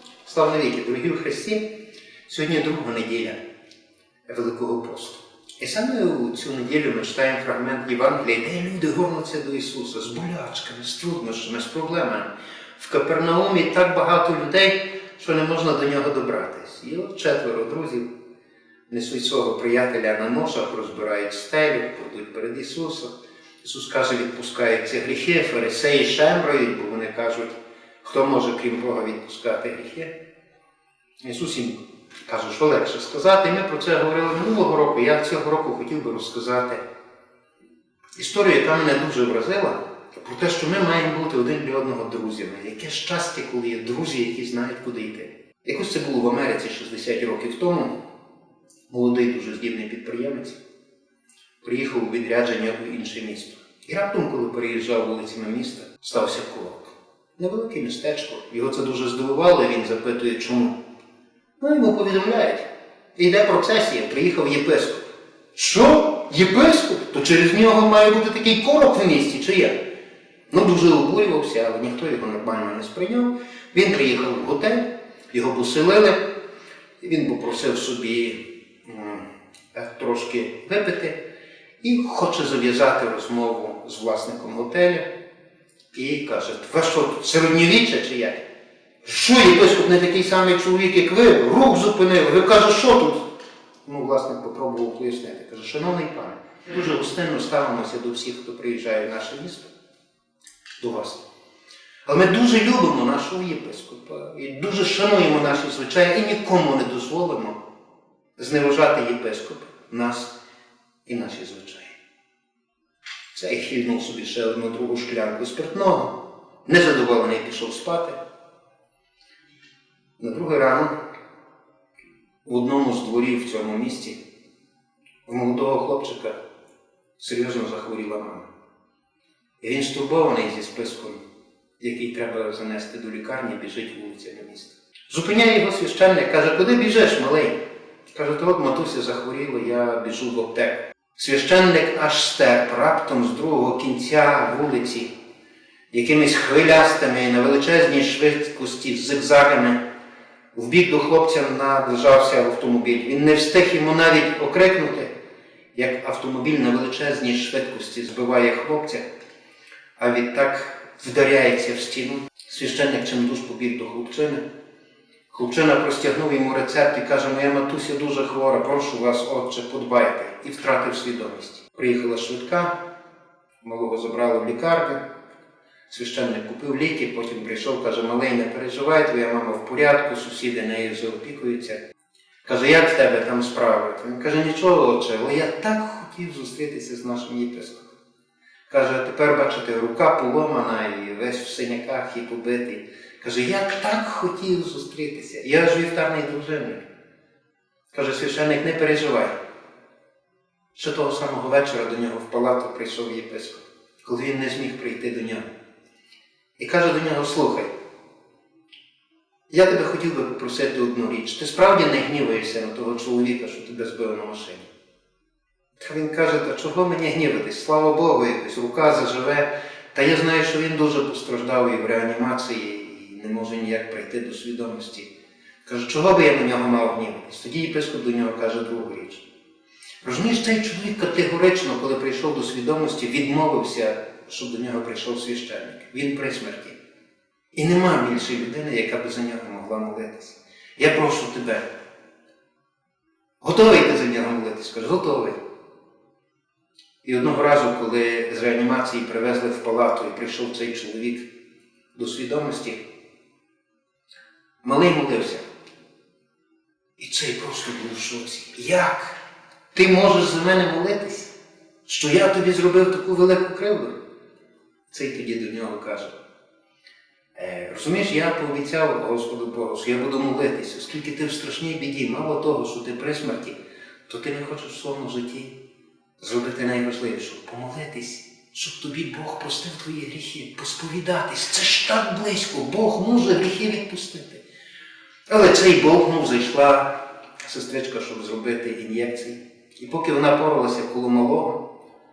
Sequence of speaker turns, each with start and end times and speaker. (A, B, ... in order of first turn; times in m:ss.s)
0:00.2-0:01.7 A
0:02.2-0:03.4 A
0:04.3-0:18.1 A
0:18.9-0:30.1 A
0:31.2-0:36.8 A
0:38.2-0:47.9 A
0:48.9-0:50.6 A
0:51.6-1:00.8 A
1:01.6-1:09.8 A
1:10.5-1:16.2 A
1:17.0-1:21.2 A
1:21.8-1:25.0 A
1:25.9-1:28.4 A
1:29.0-1:33.2 A
1:33.8-1:39.7 A
1:40.8-1:41.2 A
1:42.0-1:47.6 A
1:48.4-1:50.3 A
1:51.0-1:52.0 A
1:53.3-1:58.2 A
2:00.2-2:00.9 A
2:02.4-2:04.2 A
2:05.2-2:06.4 A
2:07.2-2:08.5 A
2:09.6-2:11.2 A
2:11.8-2:17.6 A
2:18.1-2:25.1 A
2:25.9-2:29.8 A
2:30.5-2:35.1 A
2:35.7-2:39.0 A
2:40.0-2:44.4 A
2:45.3-2:52.8 A
2:53.6-2:55.0 A
2:55.9-3:01.8 A
3:02.4-3:07.9 A
3:08.7-3:16.8 A
3:17.9-3:19.3 A
3:20.7-3:25.5 A
3:26.6-3:27.7 A
3:29.5-3:34.7 A
3:35.8-3:45.1 A
3:45.6-3:49.3 A
3:50.0-3:56.8 A
3:57.5-4:01.6 A
4:03.4-4:05.4 A
4:07.0-4:11.3 A
4:11.9-4:12.8 A
4:14.6-4:15.4 A
4:17.0-4:19.2 A
4:19.7-4:21.3 A
4:21.8-4:23.9 A
4:24.9-4:26.2 A
4:27.3-4:35.5 A
4:36.2-4:44.4 A
4:45.3-4:51.6 A